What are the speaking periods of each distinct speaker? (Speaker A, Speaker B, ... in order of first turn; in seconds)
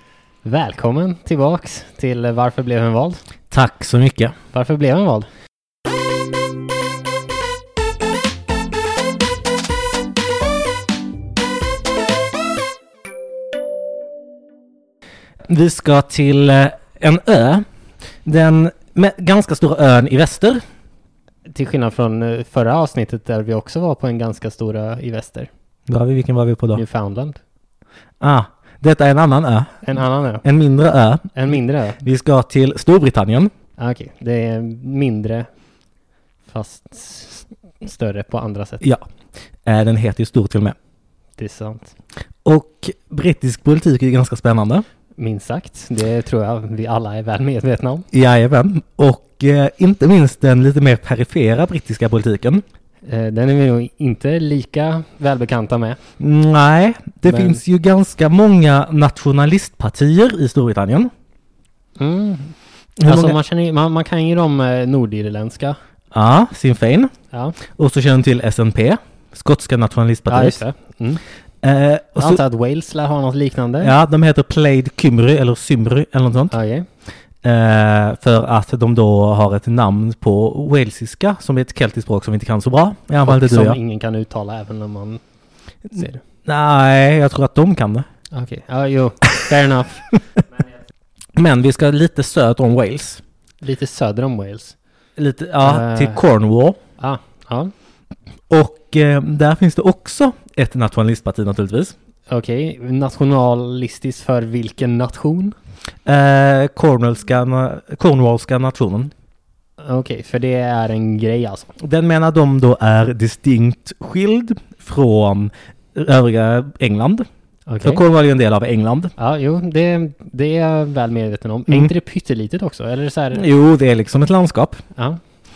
Speaker A: 0.4-3.2, 4.5-5.3, 21.5-25.5, 26.7-27.4, 29.8-30.4, 31.3-32.0, 33.8-35.5, 36.5-38.9, 41.4-41.9, 45.2-48.0, 53.1-56.0, 57.2-57.6, 62.0-65.8, 67.3-67.6, 70.3-71.2, 72.2-73.9, 76.5-76.9, 83.2-85.2, 85.9-86.2, 88.3-90.1, 93.6-94.7, 95.6-96.2, 97.0-97.7, 102.3-105.5, 109.8-111.7, 117.7-118.0, 119.2-123.4
Speaker B: 3.5-4.3, 15.5-17.6, 18.2-20.6, 25.9-26.8, 28.2-29.8, 30.4-31.3, 32.0-33.5, 39.6-40.8, 42.4-44.8, 48.1-52.6, 56.2-61.1, 63.0-63.4, 66.1-67.1, 67.7-70.6, 71.6-72.4, 73.8-76.5, 77.4-83.8, 85.9-88.1, 91.3-93.2, 95.2-96.8, 98.5-101.9, 106.0-109.1, 111.8-117.2, 117.8-119.1, 123.3-124.8